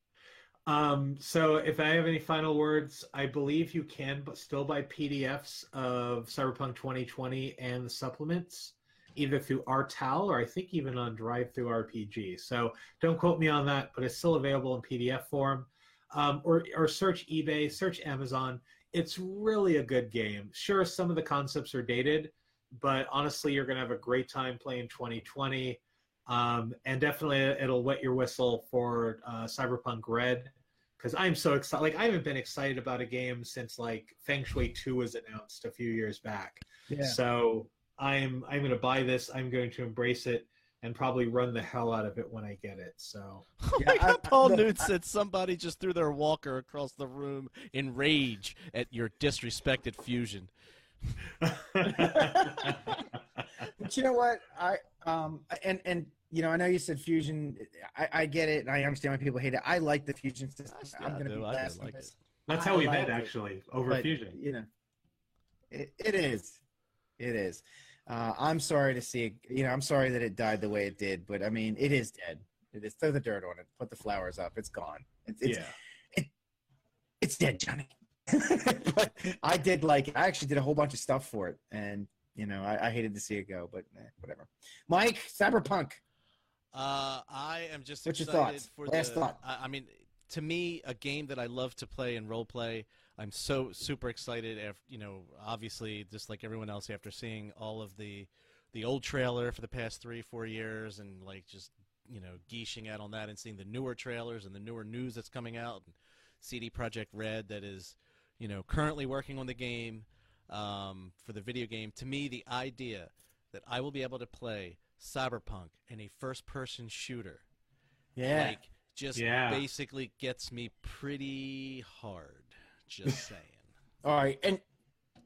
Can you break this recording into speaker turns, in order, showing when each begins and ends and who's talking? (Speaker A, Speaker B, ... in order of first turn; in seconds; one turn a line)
Speaker A: 0.7-43.5
Speaker B: 36.9-37.2
Speaker C: 43.6-50.5
Speaker B: 43.8-44.9
Speaker A: 51.4-53.0
Speaker B: 51.9-53.0
Speaker B: 53.8-63.3
Speaker C: 60.7-62.1
Speaker A: 62.5-64.4
Speaker B: 63.9-64.7
Speaker B: 65.7-66.6
Speaker B: 67.2-75.6
Speaker A: 75.4-75.7
Speaker B: 77.2-86.0
Speaker C: 86.7-117.4
Speaker B: 88.0-89.4
Speaker B: 118.2-118.6
Speaker C: 118.3-123.7
Speaker A: 119.1-119.6
Speaker B: 124.0-124.6